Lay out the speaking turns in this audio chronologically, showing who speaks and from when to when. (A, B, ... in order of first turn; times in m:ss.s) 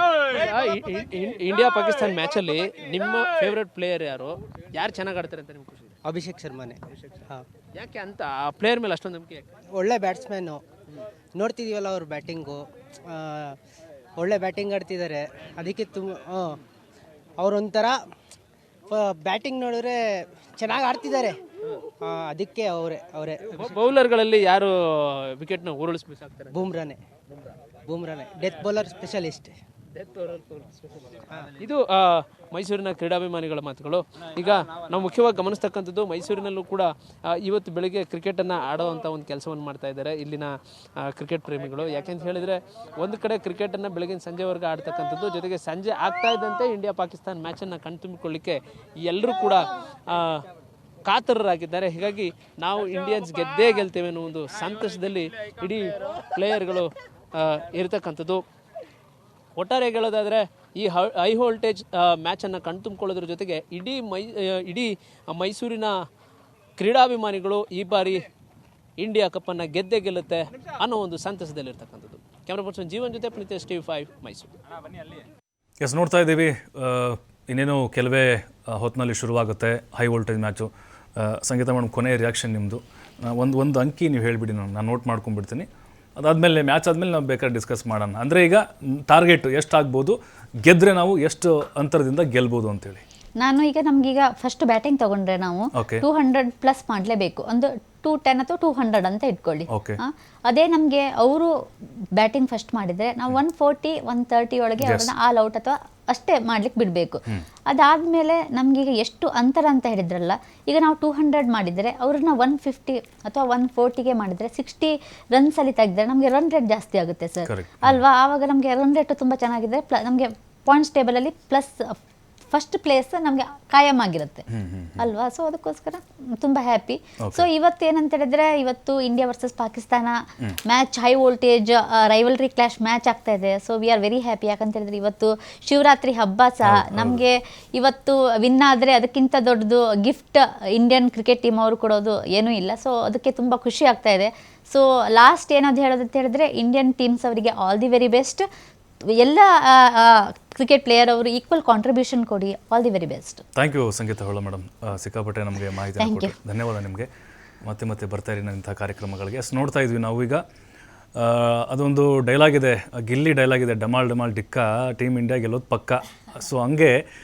0:00.2-0:06.0 A
0:06.0-0:07.5 B
0:07.8-0:09.5 A
0:09.7-0:10.6 B
0:11.3-0:13.6 B
0:14.2-0:16.6 B
0:17.4-0:18.0 B
0:18.9-0:21.4 B
0:22.0-0:23.7 B
0:23.5-0:26.6 A
0:26.5-0:27.0 B
0:27.9-0:29.6 B
0:29.9-0:50.5 A
0:51.1-0:58.4 A
0:59.6-1:05.9 A
1:06.8-1:08.3 A
1:09.0-1:14.5 A
1:15.8-1:25.7 C
1:26.2-1:33.0 C
1:33.4-1:41.5 D
1:35.8-1:36.0 C
1:39.7-1:40.0 C
1:42.2-2:02.0 D
1:44.8-1:45.1 C
1:57.5-1:58.0 C
2:02.5-2:04.4 D
2:04.5-2:05.0 C
2:05.0-2:28.4 D
2:07.2-2:07.5 C
2:16.6-2:17.2 C
2:29.2-2:33.4 D
2:33.6-2:37.1 C
2:36.0-2:36.3 D
2:37.6-2:40.4 C
2:41.2-2:46.9 C